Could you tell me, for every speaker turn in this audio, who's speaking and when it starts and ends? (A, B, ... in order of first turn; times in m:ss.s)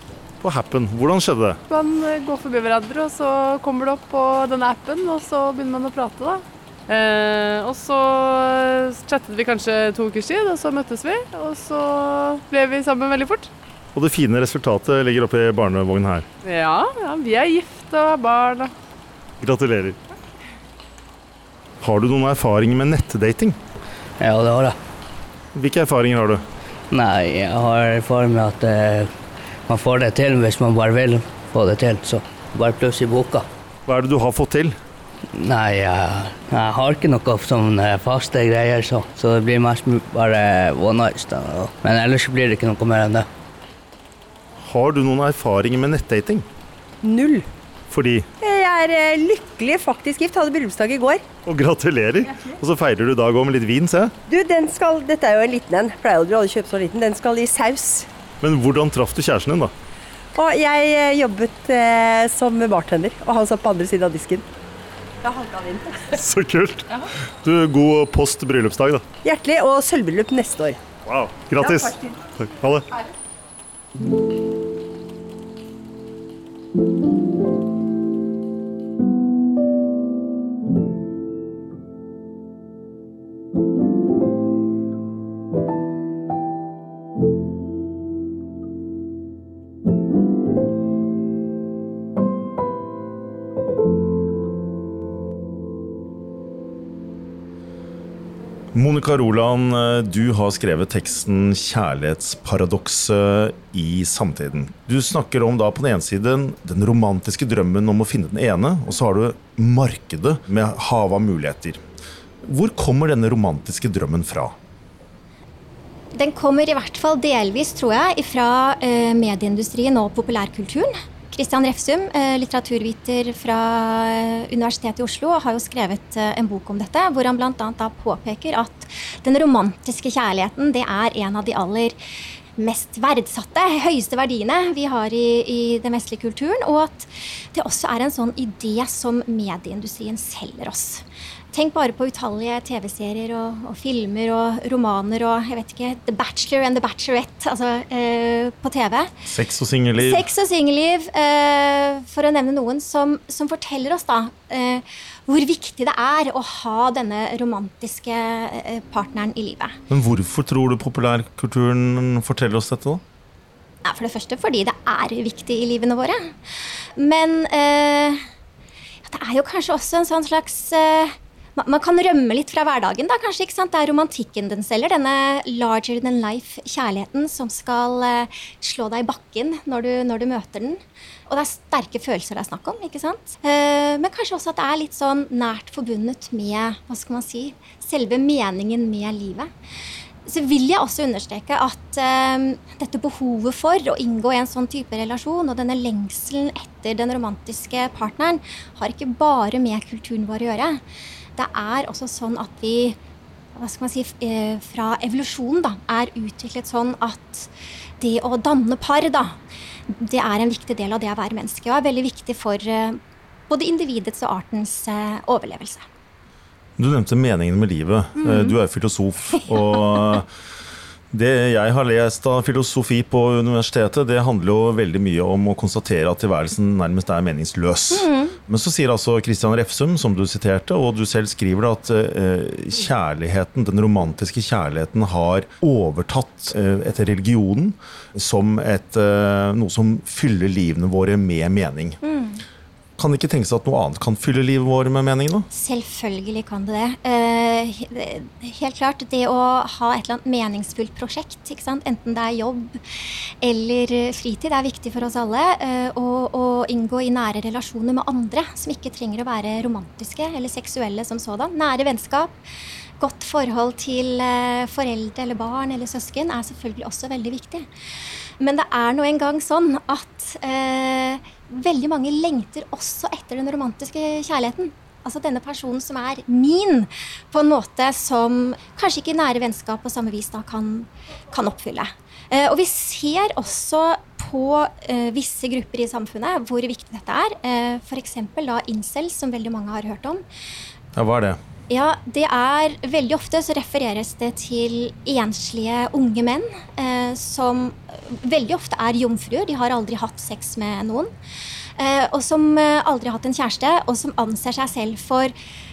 0:00.4-0:01.6 A
0:01.7-0:13.5 B
0:13.9-0:16.2 A
0:16.4-0:18.7 B
0:19.4-0:20.0 A
0:21.8-0:23.6 A
0:24.2-0:24.8 C
0:25.5-0:26.4 A
0:26.9-0:29.1 C
0:29.7-0:33.4 C
0:33.9-0:34.7 A
0:35.3-0:43.3 C
0:44.6-0:46.5 A
0:47.0-0:47.5 D
0:47.9-0:48.3 A
0:48.4-0:51.2 D
0:51.4-0:54.1 A
0:54.3-0:58.1 D
0:58.4-0:59.7 A
1:00.3-1:04.4 D
1:05.2-1:06.1 D
1:06.1-1:06.9 A
1:07.4-1:09.0 A
1:09.2-1:10.8 D
1:11.0-1:12.9 A
1:11.6-1:12.2 D
1:38.7-1:51.8 A
1:52.4-1:54.6 A
1:56.1-2:12.0 E
2:12.6-2:29.1 E
2:29.3-2:30.3 A
2:30.0-2:39.8 E
2:39.9-2:43.0 A
2:43.8-2:48.2 E
2:49.0-3:09.5 E
3:10.2-3:20.8 E
3:21.4-3:23.0 E
3:23.6-3:27.5 E
3:28.0-3:29.4 E
3:29.9-3:35.8 E
3:36.8-3:40.3 A
3:38.2-3:38.6 E
3:41.1-4:02.0 A
3:47.9-3:48.4 E
4:02.0-4:02.4 E
4:03.0-4:05.5 A
4:05.5-4:12.8 E
4:13.4-4:22.4 E
4:23.0-4:27.6 E
4:28.4-4:50.2 E
4:50.9-4:51.4 A
4:51.7-5:01.1 E
5:01.8-5:05.3 E